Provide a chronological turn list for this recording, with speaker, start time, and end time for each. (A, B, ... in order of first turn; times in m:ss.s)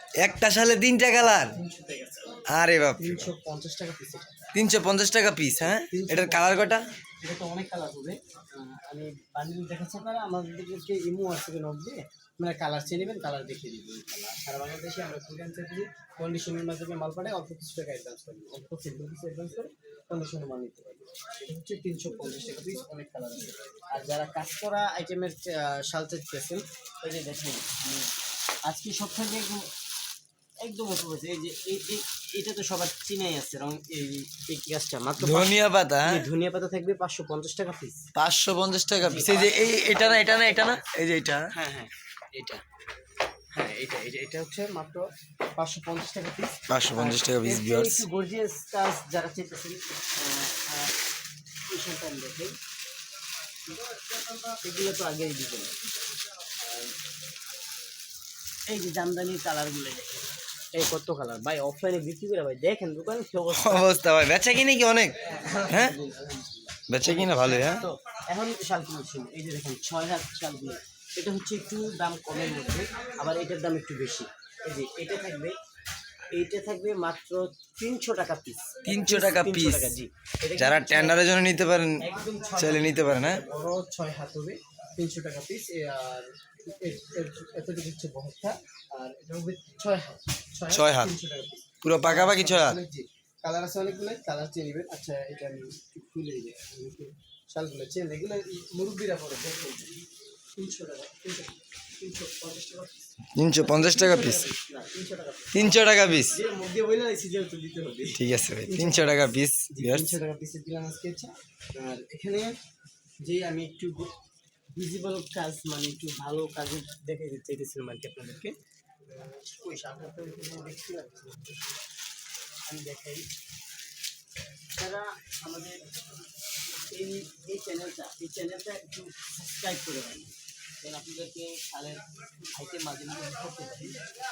0:00.2-0:01.6 A
0:01.2-0:02.4 B
0:02.5-0:03.3 A
0:03.0-0:04.5 B
0:04.6-0:06.8 A
0:05.8-0:28.1 B
0:28.6-0:29.7 B
0:30.6-0:38.1 B
0:35.2-0:36.2 A
0:38.2-0:41.5 A
0:39.0-0:40.8 B
0:41.5-0:42.6 B
0:43.5-0:50.9 B
0:46.7-0:48.0 A
0:51.7-0:52.6 B
0:53.7-0:55.8 B
0:56.6-0:56.9 B
0:58.7-1:04.0 B
1:03.5-1:05.2 A
1:05.2-1:15.6 B
1:05.7-1:06.0 A
1:06.9-1:07.8 A
1:16.3-1:21.2 B
1:18.9-1:19.9 A
1:20.6-1:22.0 A
1:22.0-1:40.0 B
1:22.6-1:23.4 A
1:30.7-1:31.1 A
1:31.8-1:32.8 A
1:40.6-1:52.6 B
1:43.4-1:44.5 A
1:45.5-1:46.4 A
1:48.2-1:50.2 A
1:53.2-1:54.1 B
1:54.8-1:58.6 B
1:59.1-2:01.6 B
2:02.7-2:03.3 B
2:04.8-2:05.8 B
2:06.9-2:14.0 B